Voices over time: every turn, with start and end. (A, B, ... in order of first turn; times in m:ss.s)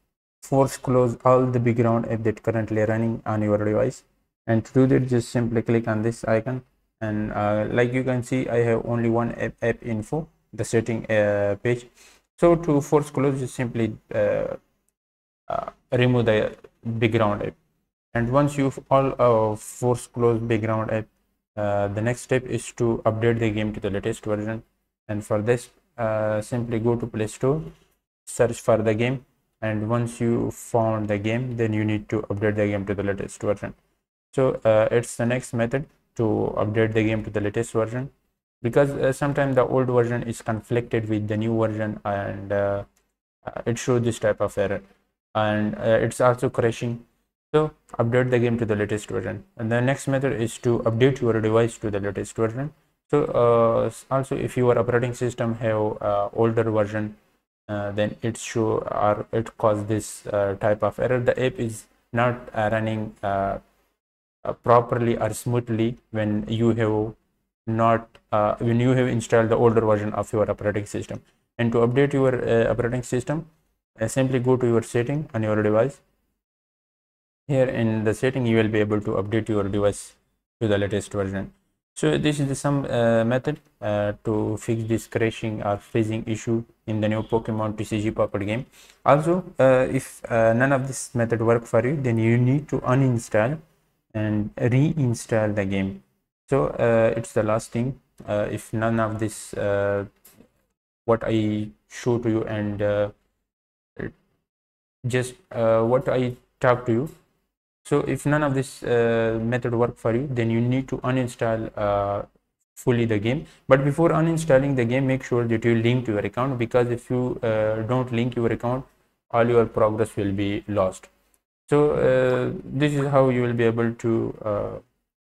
0:00.4-0:14.6 A
0:15.5-0:17.6 A
0:18.1-0:27.7 A
0:28.2-0:33.8 A
0:34.3-0:42.9 A
0:43.4-1:03.6 A
1:04.4-1:13.5 A
1:14.0-1:16.0 A
1:17.5-1:33.6 A
1:34.1-1:40.1 A
1:41.0-1:43.1 A
1:45.0-1:47.1 A
1:47.8-2:01.1 A
2:01.7-2:04.8 A